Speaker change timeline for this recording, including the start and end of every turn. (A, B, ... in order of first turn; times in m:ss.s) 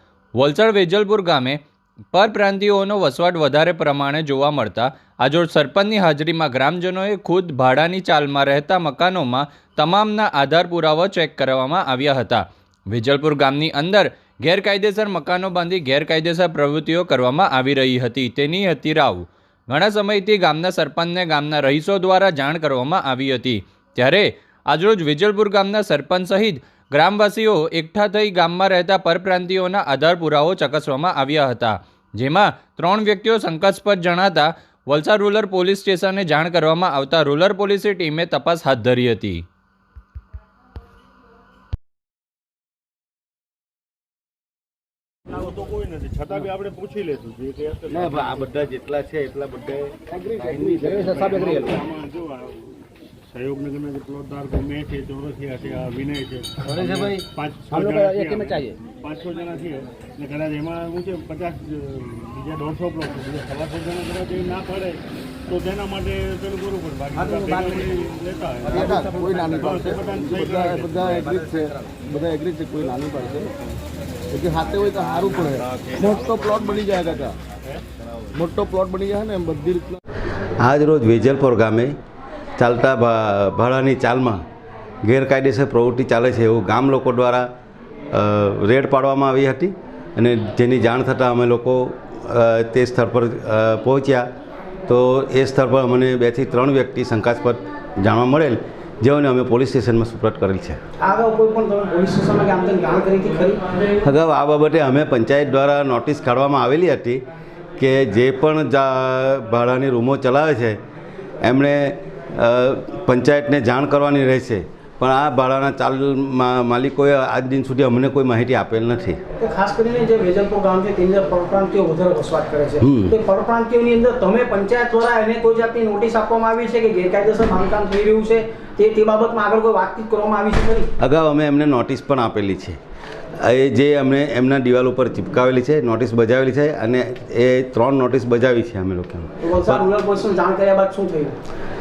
0:00.4-0:01.6 A
0:02.1-0:39.5 A
0:45.3-0:48.6 B
0:47.9-0:50.0 C
0:50.1-0:51.4 D
0:50.4-1:11.2 B
1:08.7-1:13.5 D
1:14.3-1:17.4 D
1:18.3-1:20.0 D
1:20.6-1:22.0 C
1:22.6-1:24.4 C
1:25.0-1:27.5 C
1:28.1-1:34.3 C
1:34.9-1:40.8 C
1:41.0-1:43.6 E
1:44.0-1:47.2 C
1:47.8-1:50.8 C
1:51.4-1:59.2 C
1:59.4-2:10.9 E
2:02.8-2:03.1 C
2:11.0-2:12.8 C
2:13.4-2:19.8 C
2:19.4-2:21.4 E